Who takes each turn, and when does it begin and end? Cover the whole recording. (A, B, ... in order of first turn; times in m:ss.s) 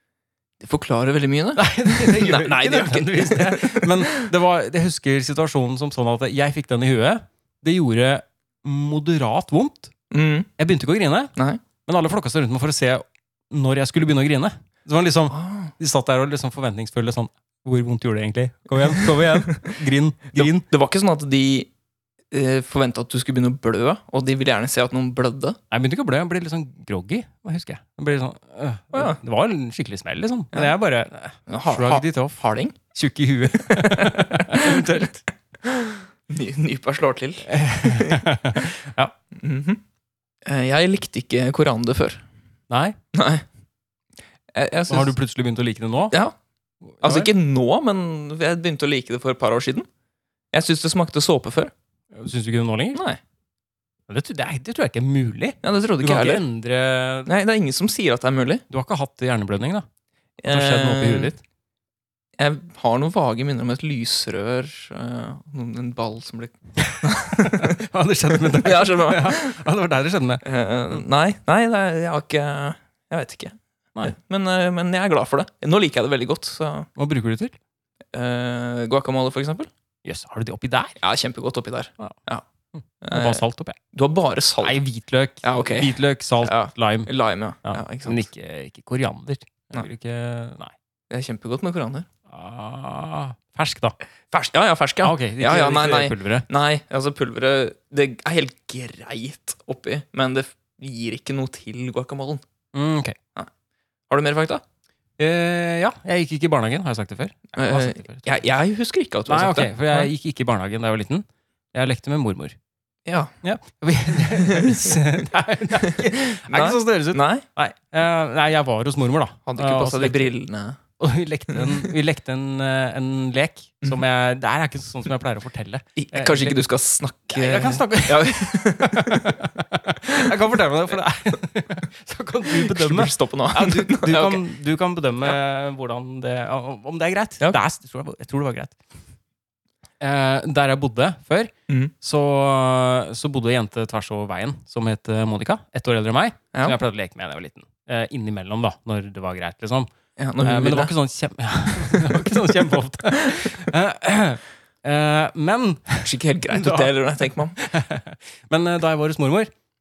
0:00.6-0:04.3 A
0:01.6-0:09.9 B
0:10.1-0:10.5 A
0:10.6-0:11.3 B
0:11.4-0:11.6 A
0:11.8-0:20.6 B
0:15.3-0:15.7 A
0:20.3-0:21.7 A
0:22.3-0:25.6 A
0:25.7-0:32.4 B
0:28.9-0:29.2 A
0:31.5-0:32.8 A
0:32.9-0:35.2 B
0:33.6-0:35.0 A
0:35.6-0:38.3 A
0:37.4-0:39.1 B
0:39.3-0:39.8 A
0:40.4-0:42.2 A
0:42.7-0:43.0 B
0:43.1-0:43.4 A
0:44.5-0:45.1 A
0:44.9-0:46.2 B
0:46.8-0:47.3 B
0:47.0-0:49.9 A
0:50.5-0:51.7 A
0:52.1-0:53.0 B
0:52.9-0:53.2 A
0:54.1-0:57.3 B
0:55.6-0:56.4 A
0:57.3-0:58.6 A
0:58.7-0:59.9 B
1:00.4-1:01.3 A
1:00.5-1:01.4 B
1:02.4-1:07.8 A
1:06.8-1:10.4 B
1:08.5-1:09.6 A
1:10.4-1:16.9 A
1:17.0-1:17.6 B
1:18.1-1:19.7 A
1:20.0-1:21.0 B
1:21.0-1:22.4 A
1:22.7-1:23.8 B
1:23.0-1:24.8 A
1:24.6-1:27.1 B
1:25.4-1:28.2 A
1:27.6-1:30.7 B
1:31.1-1:32.1 A
1:32.3-1:34.0 B
1:34.3-1:42.4 A
1:35.0-1:36.5 B
1:42.7-1:43.2 B
1:44.1-1:44.6 A
1:45.2-1:48.4 B
1:47.6-1:50.1 A
1:49.3-1:52.6 B
1:53.1-1:53.3 A
1:53.4-2:00.3 B
1:54.3-1:54.8 A
1:55.9-1:57.4 A
1:59.5-2:00.8 A
2:01.0-2:06.6 B
2:01.5-2:01.9 A
2:06.0-2:09.4 A
2:07.3-2:18.8 B
2:12.5-2:14.4 A
2:20.0-2:29.9 B
2:30.2-2:30.9 A
2:30.4-2:37.0 B
2:36.0-2:37.6 A
2:37.6-2:39.5 B